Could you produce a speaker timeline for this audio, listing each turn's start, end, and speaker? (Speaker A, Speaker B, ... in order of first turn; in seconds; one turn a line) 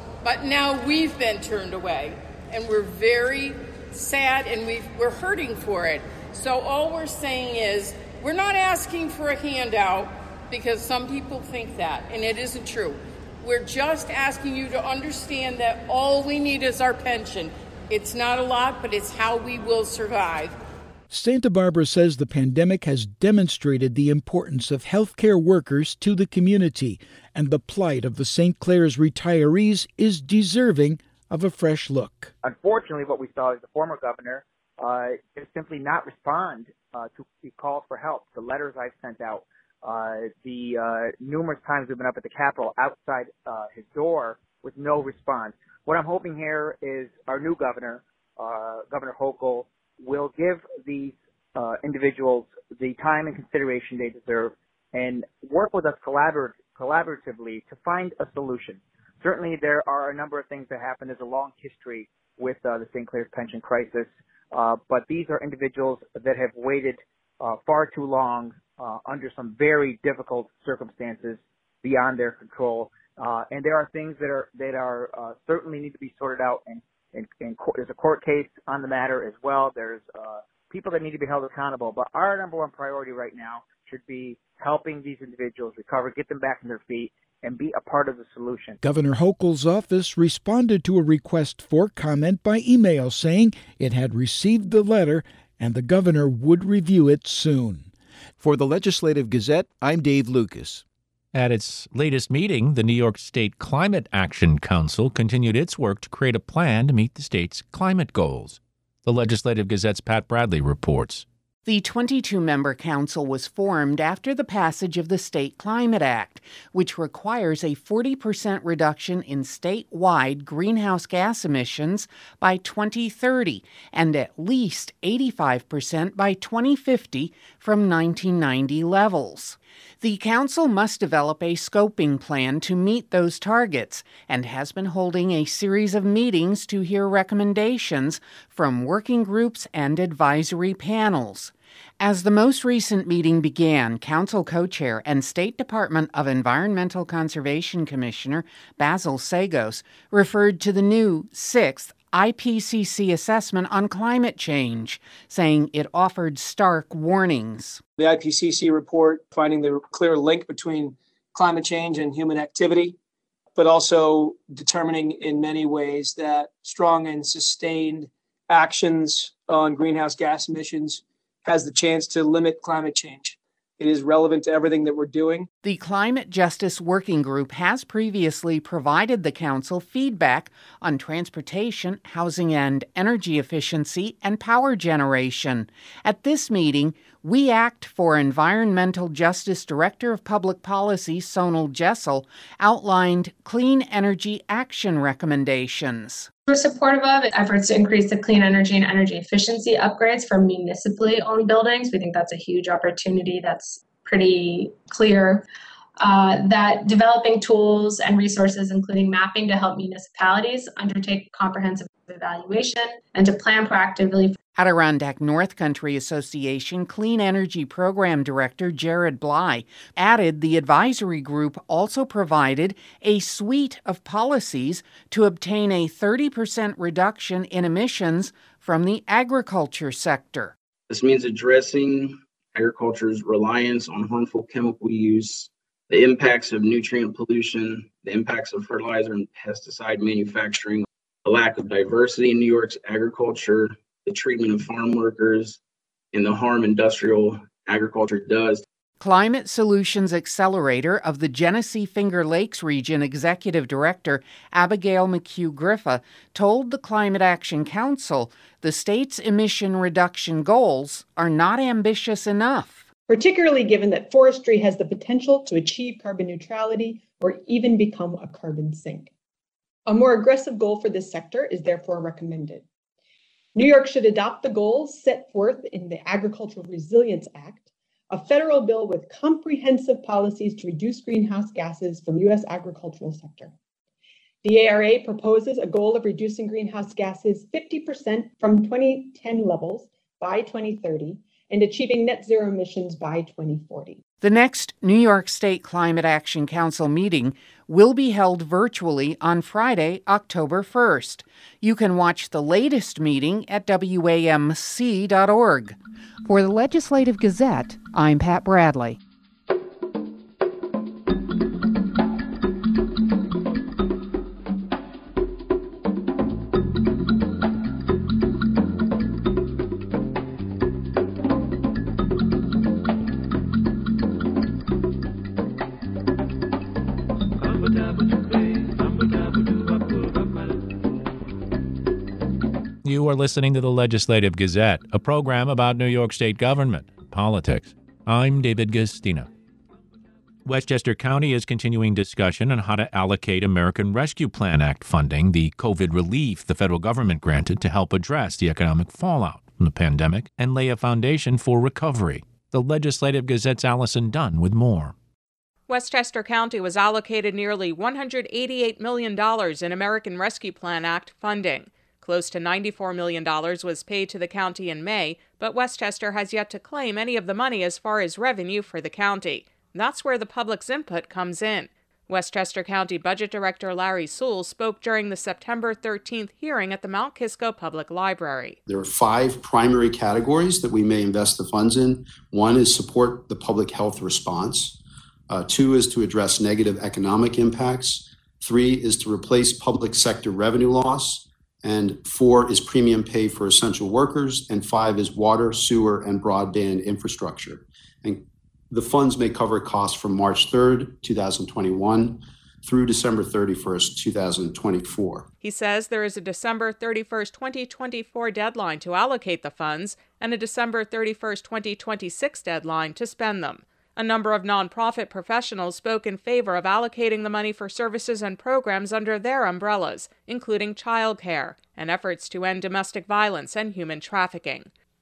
Speaker A: 0.2-20.6
Speaker B: 21.1-32.3
Speaker C: 32.4-88.8
Speaker B: 88.8-97.9
Speaker B: 98.4-100.8
Speaker D: 101.3-111.2
Speaker E: 111.6-157.8
Speaker F: 158.0-163.0
Speaker F: 163.5-175.5
Speaker E: 175.6-196.3
Speaker G: 196.5-205.4
Speaker G: 206.0-214.4
Speaker E: 214.5-230.5
Speaker H: 230.9-245.6
Speaker H: 246.1-248.6
Speaker E: 249.0-262.9
Speaker I: 263.1-269.1
Speaker I: 269.9-272.6
Speaker I: 273.5-283.5
Speaker I: 284.4-294.0
Speaker E: 294.2-309.0
Speaker D: 332.8-339.3
Speaker D: 340.4-354.9
Speaker J: 355.7-378.6
Speaker K: 378.7-384.8
Speaker K: 385.3-405.3
Speaker J: 405.4-424.7